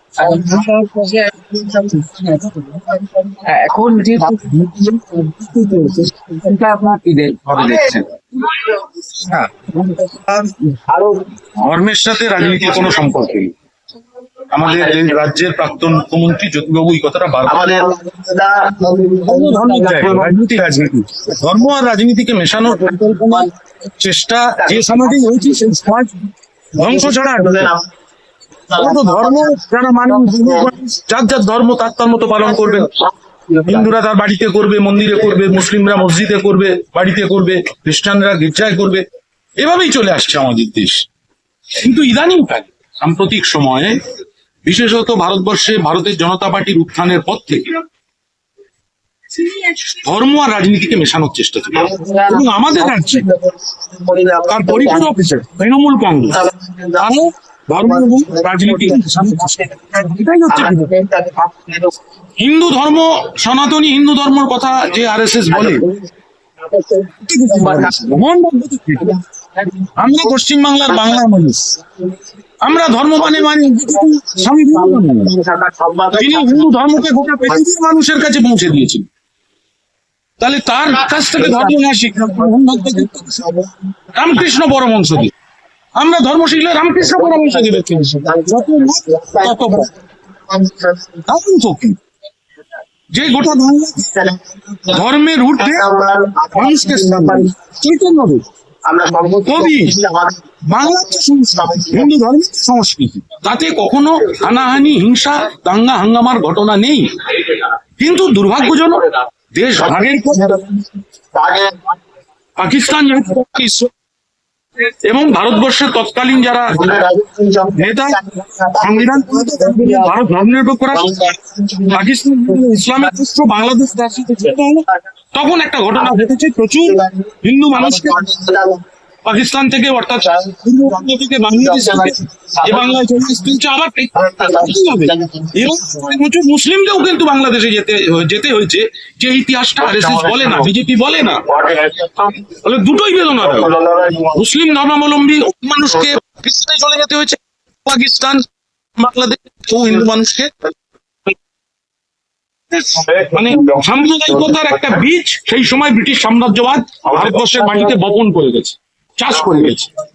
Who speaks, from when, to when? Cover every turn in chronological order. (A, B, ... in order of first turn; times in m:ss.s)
0:00.2-0:01.3 A
0:00.2-0:00.7 B
0:01.4-0:03.5 B
0:02.0-0:02.8 A
0:03.4-0:08.1 A
0:04.2-0:06.6 B
0:07.5-0:07.8 C
0:09.7-0:10.8 A
0:10.9-0:11.3 B
0:11.6-0:13.5 C
0:14.5-0:17.9 C
0:14.7-0:15.0 B
0:17.5-0:20.7 B
0:19.2-0:26.2 C
0:22.6-0:23.5 B
0:24.6-0:25.7 B
0:26.8-0:27.9 B
0:26.8-0:27.7 C
0:28.7-0:30.7 B
0:28.8-0:32.9 C
0:32.6-0:33.9 B
0:33.7-0:39.0 C
0:39.6-0:41.0 C
0:41.8-0:44.0 C
0:44.6-0:47.7 C
0:49.4-0:53.2 C
0:51.7-0:55.2 B
0:54.5-0:56.4 C
0:56.3-0:57.2 B
0:57.0-1:00.9 C
0:57.8-1:02.0 B
1:02.4-1:05.8 C
1:05.5-1:06.0 B
1:06.6-1:08.2 B
1:07.3-1:09.1 C
1:09.0-1:10.4 B
1:10.0-1:11.8 C
1:10.9-1:11.2 B
1:11.8-1:12.2 B
1:12.6-1:15.3 C
1:13.1-1:17.6 B
1:16.1-1:19.0 C
1:20.4-1:23.5 C
1:21.3-1:23.9 B
1:24.1-1:25.3 C
1:26.0-1:29.9 C
1:27.0-1:30.0 B
1:30.5-1:31.3 B
1:31.3-1:32.0 C
1:33.1-1:34.1 C
1:33.4-1:35.0 B
1:34.9-1:35.9 C
1:35.6-1:37.6 B
1:36.5-1:38.4 C
1:38.9-1:42.1 B
1:39.4-1:40.0 C
1:40.7-1:50.6 C
1:49.8-1:51.9 B
1:52.6-1:53.9 C
1:54.8-1:56.8 C
1:56.7-2:00.2 B
1:57.8-1:58.2 C
1:58.8-2:01.4 C
2:00.9-2:03.2 B
2:01.9-2:08.2 C
2:04.4-2:05.0 B
2:06.0-2:08.8 B
2:09.2-2:21.4 C
2:10.2-2:13.1 B
2:14.2-2:16.2 B
2:19.9-2:20.7 B
2:21.5-2:22.4 B
2:22.6-2:23.8 C
2:23.4-2:24.4 B
2:24.3-2:28.4 C
2:29.0-2:30.5 C
2:32.7-2:39.9 C
2:33.0-2:34.5 B
2:37.0-2:38.0 B